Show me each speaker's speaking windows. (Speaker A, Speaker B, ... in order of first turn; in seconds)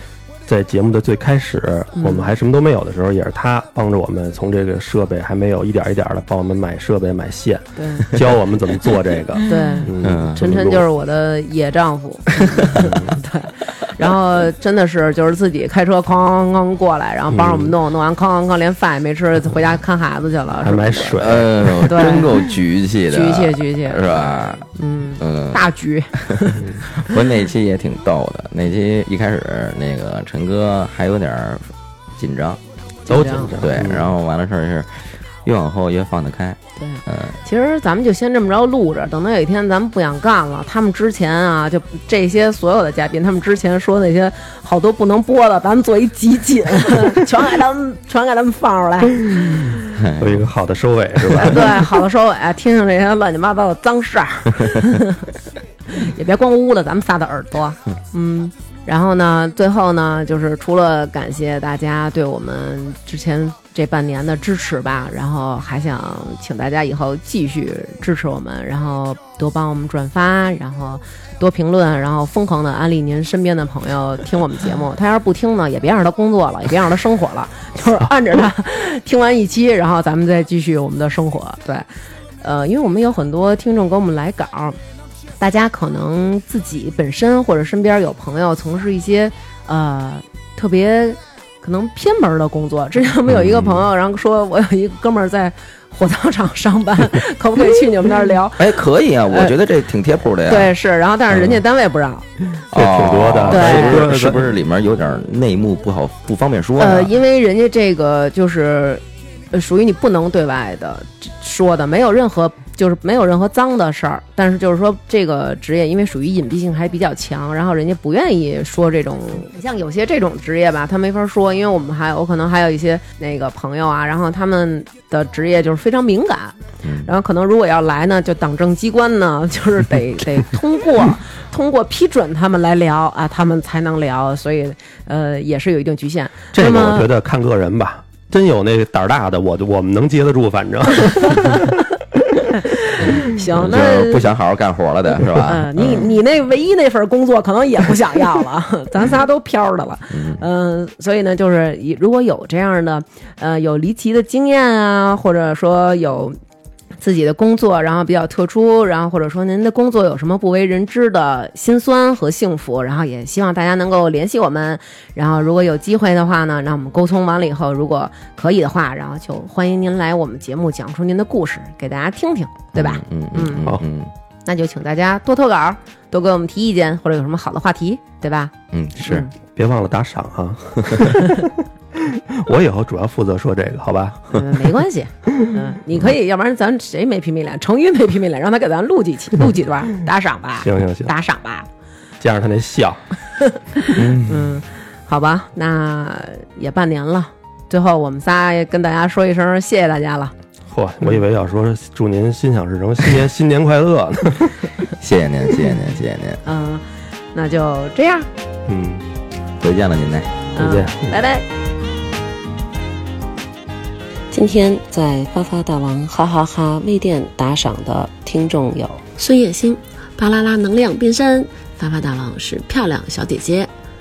Speaker A: 0.5-10.9, 12.8-13.2, 17.3-17.8, 20.6-22.2, 33.1-34.1, 50.2-51.9, 102.7-104.6, 136.5-142.4, 179.6-184.7, 190.6-191.1, 192.2-193.1, 194.0-194.2, 200.7-204.7, 208.7-209.0, 210.6-211.2
Speaker B: 2.0-2.3, 7.8-8.1, 9.4-21.2, 21.9-22.3, 23.1-26.7, 33.1-33.6, 36.8-49.7, 51.5-55.3, 55.9-81.9, 82.4-84.8, 85.4-98.8, 99.3-99.6, 100.5-102.3, 103.5-104.0, 106.8-137.1, 141.2-141.7, 142.6-144.3, 145.4-156.4, 157.0-173.7, 174.5-179.3, 184.3-191.7, 193.4-200.3, 206.4-206.8, 207.3-208.3, 210.6-211.4
Speaker C: 10.0-10.5, 21.2-25.6, 26.2-37.4, 49.9-50.5, 51.2-51.7, 98.6-100.7, 102.7-107.1, 126.8-127.1, 143.2-146.1, 150.1-150.4, 172.7-174.1, 178.7-179.3, 205.0-206.4, 209.6-210.5
Speaker D: 214.3-223.7